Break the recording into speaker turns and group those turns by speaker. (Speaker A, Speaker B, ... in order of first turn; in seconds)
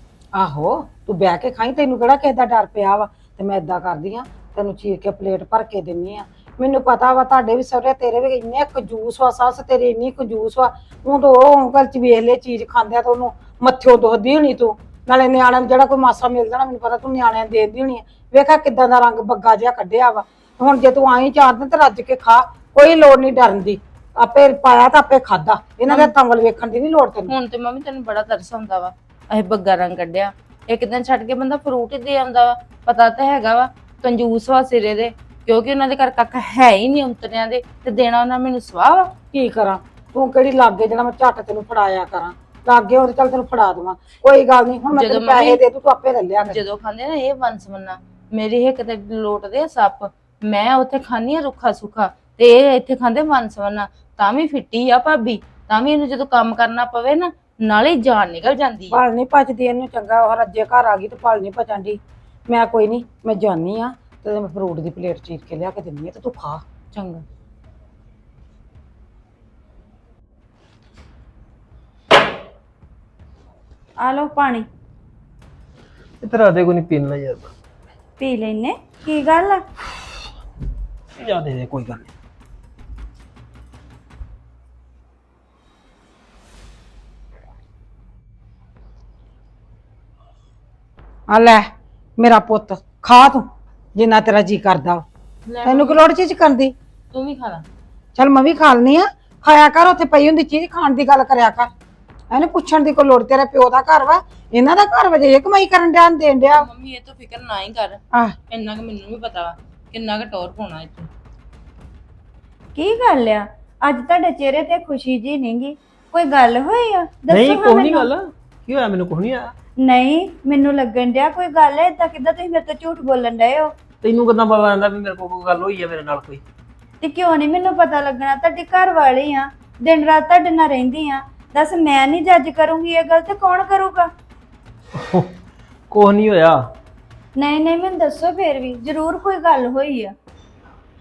Speaker A: 0.3-27.3, 39.3-46.6, 58.9-66.6, 91.3-95.0, 95.6-96.7, 98.2-101.7, 102.3-106.7
Speaker B: 25.9-26.1, 27.3-39.1, 44.9-45.6, 46.4-59.0, 66.9-67.2, 95.5-96.0, 97.1-97.6, 106.5-111.1
Speaker C: 74.0-74.7, 78.2-79.6, 112.8-118.1, 119.8-123.7, 127.0-134.1, 137.3-140.1
Speaker D: 76.2-77.5, 81.2-82.1, 117.3-119.5, 124.0-126.4, 134.9-135.3, 135.9-136.6